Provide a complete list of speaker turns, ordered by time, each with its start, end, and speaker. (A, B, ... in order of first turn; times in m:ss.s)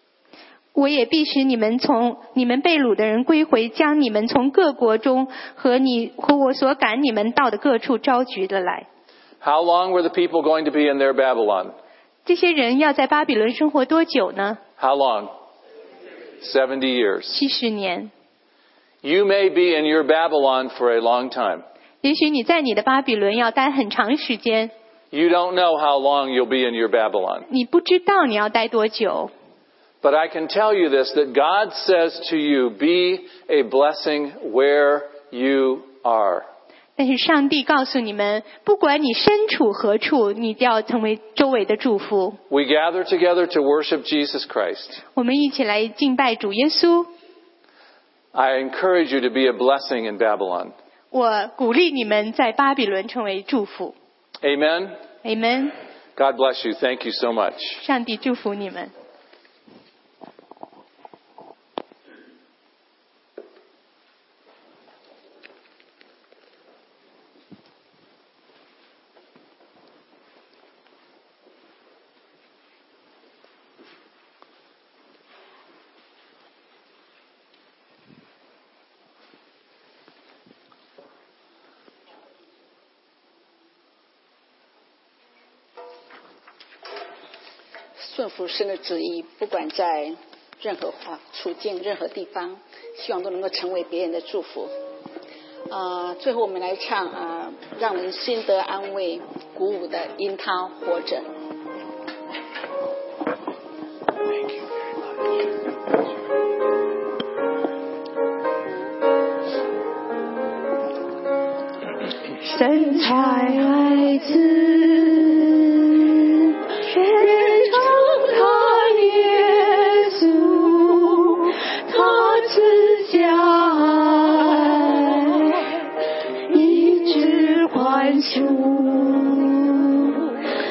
0:00.8-0:08.9 A
0:09.4-0:11.8 B
0:12.2-0:14.6 A
0:14.8-0:15.3 B
0:16.4-0:17.4 B
0:17.3-0:18.1 A
0:19.0-0:21.6 B
0:22.0-0:24.7 A
0:25.1-0:27.5 B
0:27.5-0:29.3 A
0:30.0-0:36.5 B
0:37.0-0:42.4 A
0:42.5-0:45.0 B
0:45.2-0:47.1 A
0:48.3-0:50.7 B
0:51.1-0:54.0 A
0:54.4-0:55.0 B
0:55.2-0:55.7 A
0:56.2-0:57.8 B
0:57.8-0:58.9 A
1:28.0-1:34.7 C
1:35.7-1:41.3 C
1:52.4-2:05.6 D
2:06.5-2:10.2 D